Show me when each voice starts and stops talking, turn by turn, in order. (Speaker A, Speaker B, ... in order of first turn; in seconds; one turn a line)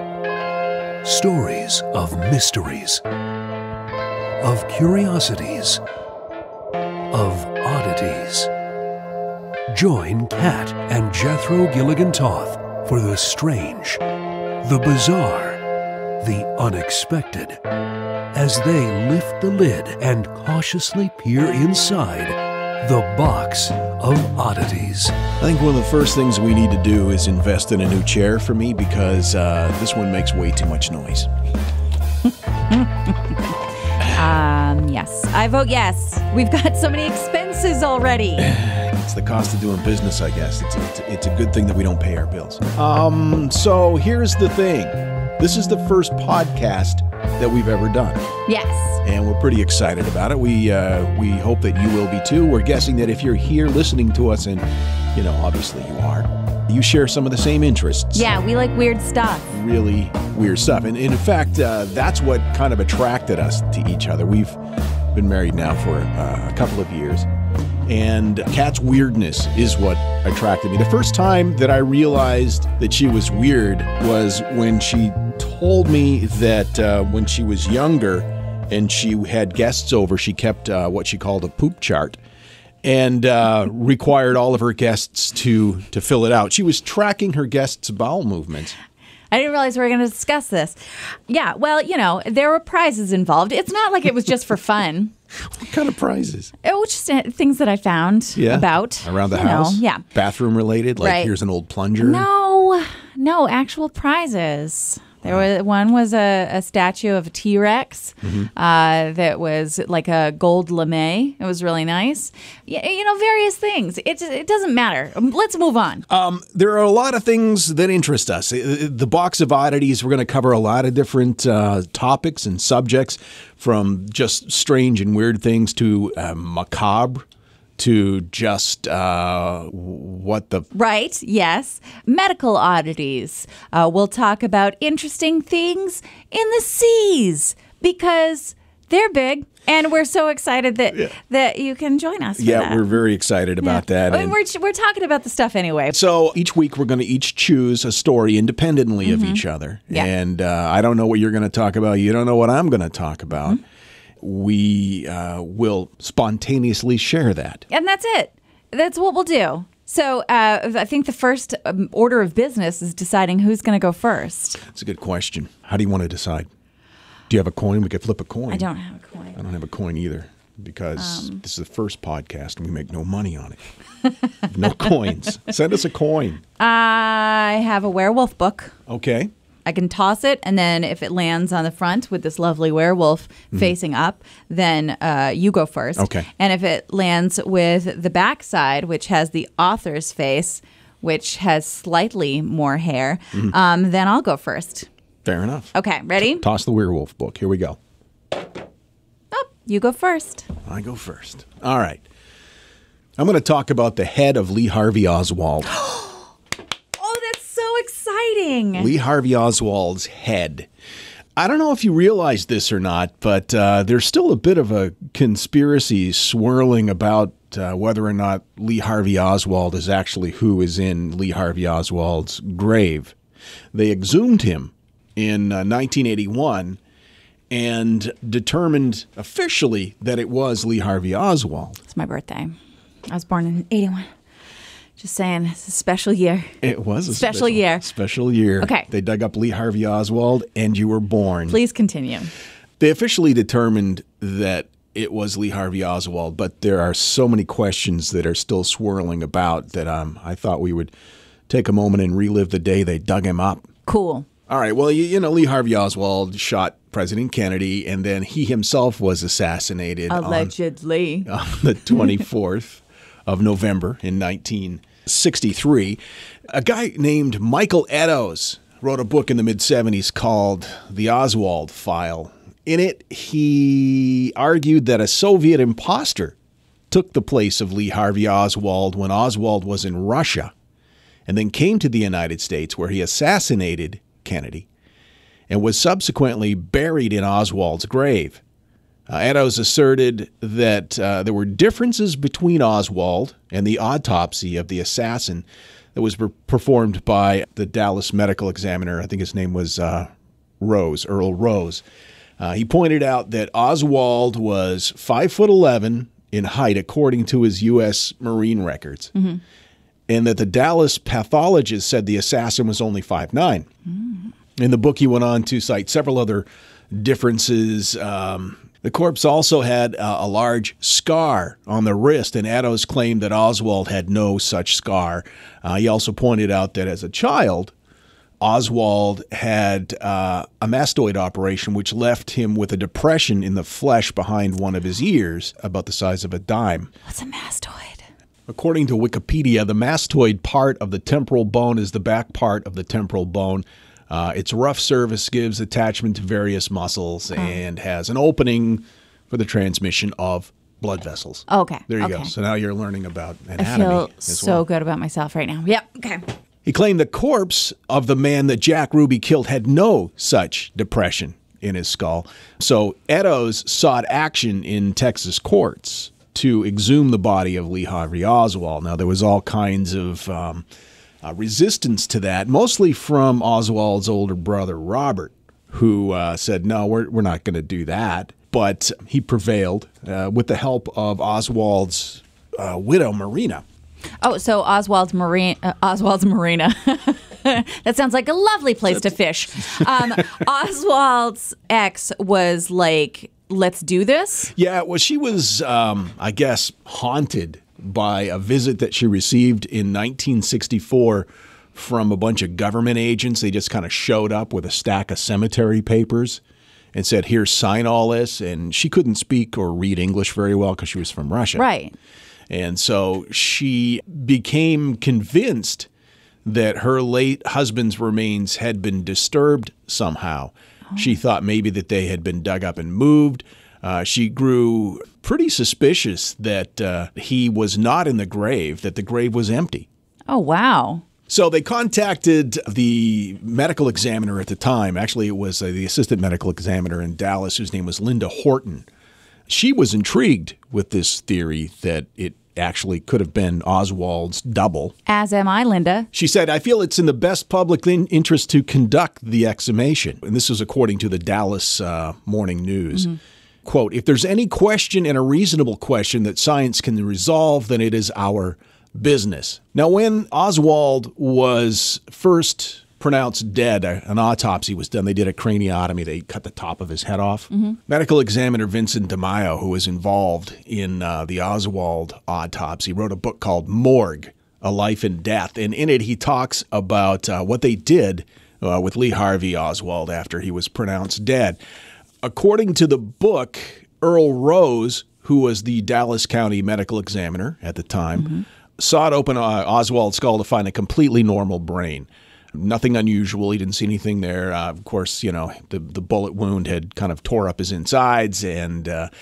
Speaker A: 1.0-3.0
Speaker A: 4.4-5.8
Speaker A: 7.1-8.5
Speaker A: 9.7-14.0
Speaker A: 14.6-15.6
Speaker A: 16.2-17.6
Speaker A: 18.3-25.2
Speaker B: 25.4-31.3
Speaker C: 32.7-33.3
Speaker C: 34.0-38.5
Speaker B: 38.4-48.3
Speaker C: 48.5-49.0
Speaker B: 49.0-58.3
Speaker C: 58.1-59.5
Speaker B: 59.5-64.6
Speaker B: 65.1-67.3
Speaker B: 67.8-82.2
Speaker B: 82.8-88.8
Speaker C: 89.3-95.1
Speaker B: 95.5-96.5
Speaker C: 96.6-100.0
Speaker B: 98.3-102.3
Speaker C: 101.0-101.3
Speaker C: 102.0-116.0
Speaker B: 108.2-108.5
Speaker B: 116.1-127.2
Speaker B: 127.8-130.7
Speaker C: 130.7-142.8
Speaker B: 142.4-144.3
Speaker C: 143.6-145.9
Speaker B: 145.9-153.6
Speaker C: 149.0-150.1
Speaker B: 154.2-157.6
Speaker C: 157.7-164.6
Speaker B: 164.6-166.5
Speaker B: 167.3-168.7
Speaker C: 168.5-169.4
Speaker B: 169.3-173.6
Speaker C: 171.0-171.4
Speaker B: 174.5-176.4
Speaker C: 176.6-178.7
Speaker B: 178.9-179.3
Speaker C: 179.6-194.9
Speaker B: 186.0-186.3
Speaker B: 195.2-197.8
Speaker C: 195.7-196.4
Speaker C: 199.3-200.5
Speaker B: 200.6-202.0
Speaker B: 203.2-205.7
Speaker C: 205.7-206.3
Speaker C: 207.0-208.9
Speaker B: 208.7-210.7
Speaker B: 211.3-223.1
Speaker B: 223.7-226.8
Speaker B: 227.5-231.8
Speaker C: 231.9-232.6
Speaker C: 233.1-234.1
Speaker C: 235.0-236.5
Speaker B: 236.6-241.6
Speaker C: 237.1-237.8
Speaker C: 238.6-238.8
Speaker C: 241.5-242.3
Speaker B: 242.8-250.9
Speaker B: 251.5-253.7
Speaker C: 253.8-254.2
Speaker B: 254.5-260.5
Speaker C: 260.1-261.3
Speaker B: 261.2-276.3
Speaker B: 276.9-280.5
Speaker B: 281.3-284.6
Speaker B: 285.5-288.4
Speaker B: 289.1-301.8
Speaker B: 302.4-309.1
Speaker C: 309.1-309.4
Speaker B: 310.1-313.7
Speaker B: 314.6-327.7
Speaker B: 328.4-336.9
Speaker C: 337.1-338.0
Speaker B: 338.5-354.6
Speaker C: 351.5-352.3
Speaker C: 353.6-356.2
Speaker B: 356.6-370.6
Speaker B: 371.2-383.6
Speaker C: 384.2-394.5
Speaker B: 394.5-406.4
Speaker B: 406.9-411.6
Speaker C: 411.6-411.9
Speaker B: 412.5-415.9
Speaker B: 416.4-429.9
Speaker C: 430.3-431.0
Speaker B: 431.3-438.9
Speaker B: 439.5-444.9
Speaker C: 445.1-446.1
Speaker B: 446.1-481.6
Speaker B: 482.2-499.1